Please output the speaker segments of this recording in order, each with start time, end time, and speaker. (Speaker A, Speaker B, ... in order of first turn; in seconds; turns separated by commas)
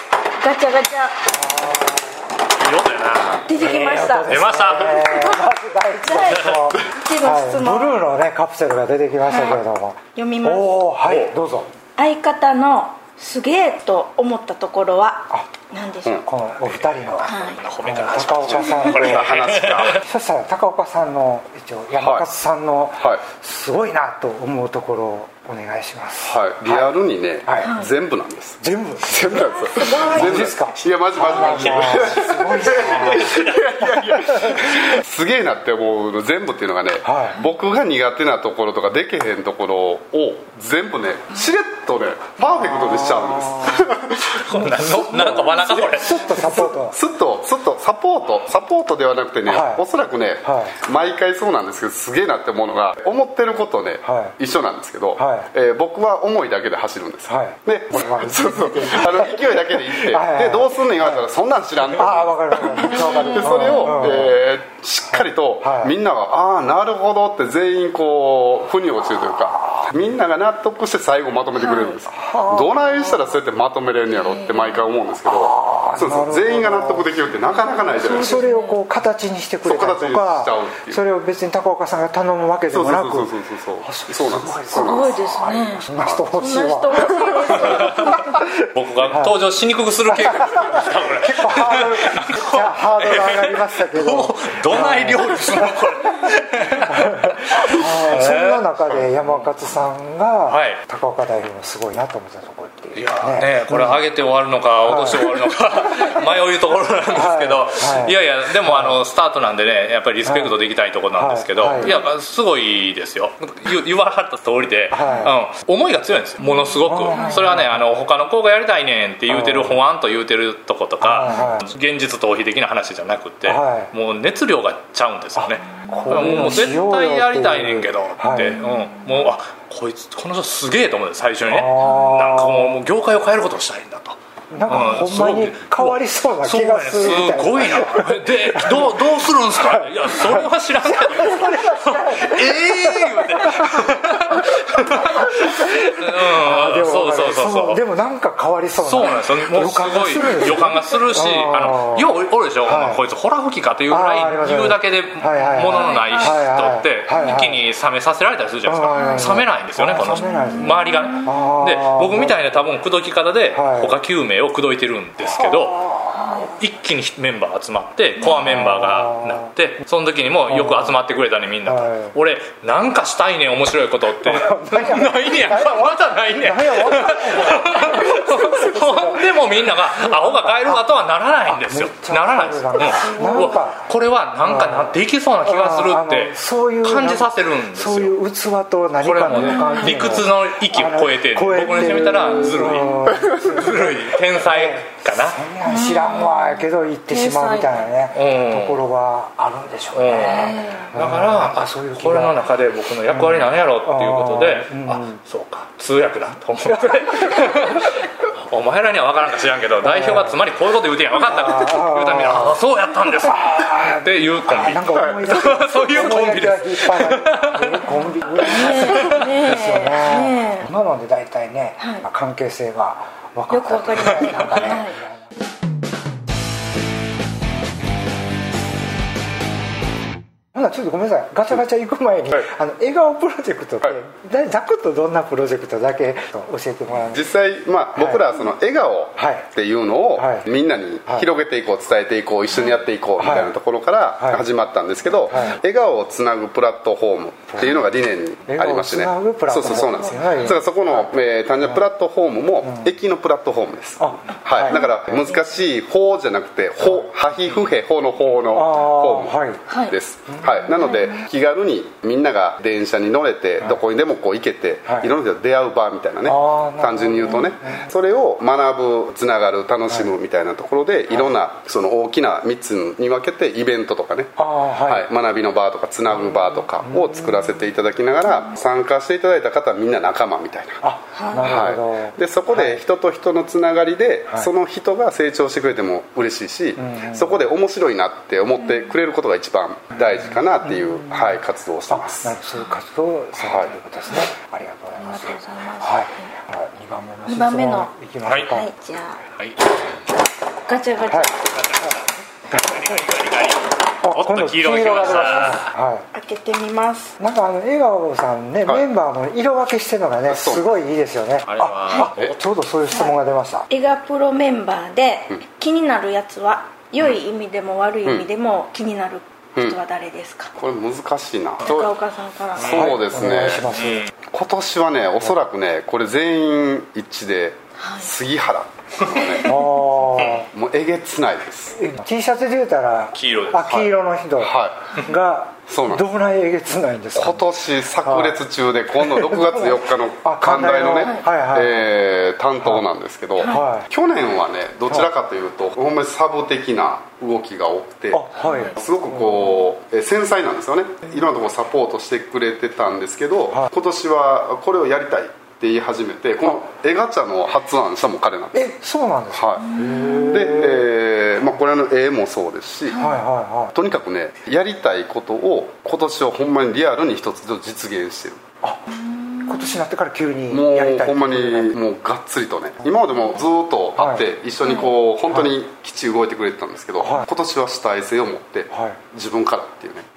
Speaker A: 0.4-1.3, Speaker B: 1.5-2.0, Speaker C: 2.5-3.5, Speaker A: 3.5-4.4, Speaker B: 3.5-11.7, Speaker C: 4.2-5.0, Speaker A: 5.0-8.1, Speaker A: 9.2-9.6, Speaker A: 10.2-10.9, Speaker C: 11.1-11.3, Speaker A: 12.0-16.2, Speaker B: 15.3-26.9, Speaker C: 16.6-20.0, Speaker A: 17.2-17.6, Speaker A: 18.7-19.0, Speaker D: 19.0-20.0, Speaker D: 22.0-22.3, Speaker D: 23.0-23.2, Speaker D: 26.2-78.4, Speaker B: 27.5-27.8, Speaker A: 27.6-27.9, Speaker B: 28.6-33.5, Speaker A: 29.4-30.4, Speaker C: 31.1-35.0, Speaker B: 34.1-34.6, Speaker B: 37.0-37.4, Speaker B: 42.4-43.9, Speaker C: 44.3-46.2, Speaker B: 45.0-47.0, Speaker B: 49.5-49.9, Speaker B: 50.4-50.8, Speaker B: 54.0-54.4, Speaker B: 55.2-55.5, Speaker B: 57.3-61.2, Speaker B: 61.8-64.4, Speaker A: 63.0-64.0, Speaker B: 65.1-65.9, Speaker A: 71.6-72.0, Speaker B: 72.1-73.0, Speaker A: 74.2-74.8, Speaker B: 75.2-77.1, Speaker A: 77.6-78.8, Speaker B: 77.8-88.1, Speaker D: 79.6-81.0, Speaker D: 82.7-85.2, Speaker A: 84.7-88.5, Speaker D: 86.0-86.3, Speaker D: 87.0-87.4, Speaker C: 87.5-88.1, Speaker C: 88.8-99.5, Speaker B: 89.0-89.4, Speaker B: 90.0-96.3, Speaker B: 96.9-104.1, Speaker C: 100.5-100.8, Speaker C: 103.0-147.8, Speaker B: 104.8-106.2, Speaker B: 107.1-109.0, Speaker B: 110.2-110.6, Speaker B: 111.1-112.0, Speaker B: 114.9-115.3, Speaker B: 116.9-117.8, Speaker A: 117.1-117.4, Speaker B: 119.3-119.8, Speaker B: 121.0-121.7, Speaker A: 121.2-121.6, Speaker B: 123.5-123.9, Speaker B: 125.4-128.7, Speaker B: 131.5-132.8, Speaker B: 134.5-153.0, Speaker C: 148.8-188.2, Speaker B: 153.9-157.6, Speaker A: 155.7-156.3, Speaker B: 158.7-162.6, Speaker A: 159.0-159.3, Speaker A: 160.1-161.3, Speaker B: 163.5-164.0, Speaker B: 165.2-166.6, Speaker A: 166.2-166.5, Speaker B: 168.2-169.5, Speaker B: 170.5-171.0, Speaker B: 171.6-172.2, Speaker B: 174.2-180.9, Speaker B: 181.5-183.9, Speaker A: 182.9-183.5, Speaker B: 184.4-202.5, Speaker C: 189.0-195.4, Speaker A: 189.3-190.1, Speaker A: 192.2-192.6, Speaker A: 195.7-197.9, Speaker C: 198.1-198.8, Speaker C: 199.9-219.3, Speaker A: 200.1-200.9, Speaker B: 203.1-205.2, Speaker B: 206.6-207.9, Speaker B: 209.8-210.4, Speaker B: 211.2-225.3, Speaker A: 218.5-220.7, Speaker A: 221.8-222.1, Speaker A: 223.5-225.0, Speaker B: 230.6-237.3, Speaker D: 237.1-280.8, Speaker B: 237.9-238.4, Speaker B: 239.2-239.5, Speaker B: 240.2-240.5, Speaker B: 243.2-243.5, Speaker B: 244.2-244.4, Speaker B: 245.3-245.6, Speaker B: 247.5-247.8, Speaker B: 248.5-251.9, Speaker A: 249.8-250.5, Speaker B: 252.6-252.9, Speaker B: 254.0-255.3, Speaker A: 254.6-255.0, Speaker B: 256.8-257.1, Speaker B: 258.5-259.6, Speaker A: 259.7-259.9, Speaker B: 260.3-260.8, Speaker A: 260.7-261.2, Speaker B: 264.9-265.1, Speaker B: 266.2-267.9, Speaker B: 274.4-275.1, Speaker B: 276.1-277.7, Speaker B: 280.8-282.8, Speaker A: 281.2-281.5, Speaker D: 281.4-292.4, Speaker B: 286.8-287.4, Speaker A: 288.6-288.9, Speaker B: 290.1-298.7, Speaker D: 293.4-293.8, Speaker A: 295.0-296.3, Speaker A: 297.3-297.9, Speaker C: 298.2-298.6, Speaker A: 298.4-299.2, Speaker A: 300.7-301.5, Speaker B: 301.1-301.9, Speaker C: 301.4-305.7, Speaker B: 302.5-303.1, Speaker B: 304.0-306.1, Speaker A: 306.1-307.2, Speaker B: 307.2-313.7, Speaker D: 310.3-310.7, Speaker C: 311.5-312.4, Speaker A: 313.7-320.5, Speaker D: 320.6-322.0, Speaker A: 321.6-322.8, Speaker D: 322.6-323.7, Speaker B: 322.7-324.1, Speaker C: 323.7-324.1, Speaker D: 324.3-329.5, Speaker A: 327.8-328.1, Speaker A: 329.2-329.7, Speaker B: 329.4-330.5, Speaker D: 330.4-331.8, Speaker B: 331.8-338.4, Speaker C: 333.1-333.8, Speaker D: 334.4-335.0, Speaker D: 335.7-336.1, Speaker D: 337.1-358.7, Speaker B: 338.9-341.9, Speaker A: 341.0-341.2, Speaker A: 343.4-343.7, Speaker B: 343.4-343.9, Speaker B: 348.1-349.6, Speaker A: 348.4-348.7, Speaker B: 358.5-360.9, Speaker D: 359.3-359.7, Speaker A: 359.6-360.4, Speaker D: 360.3-363.1, Speaker A: 362.9-363.2, Speaker B: 363.0-363.8, Speaker D: 363.7-368.4, Speaker B: 368.6-368.9, Speaker A: 368.9-369.8, Speaker B: 369.4-371.8, Speaker D: 370.5-380.1, Speaker B: 374.0-374.2, Speaker A: 374.6-374.9, Speaker B: 377.0-377.3, Speaker B: 378.7-379.1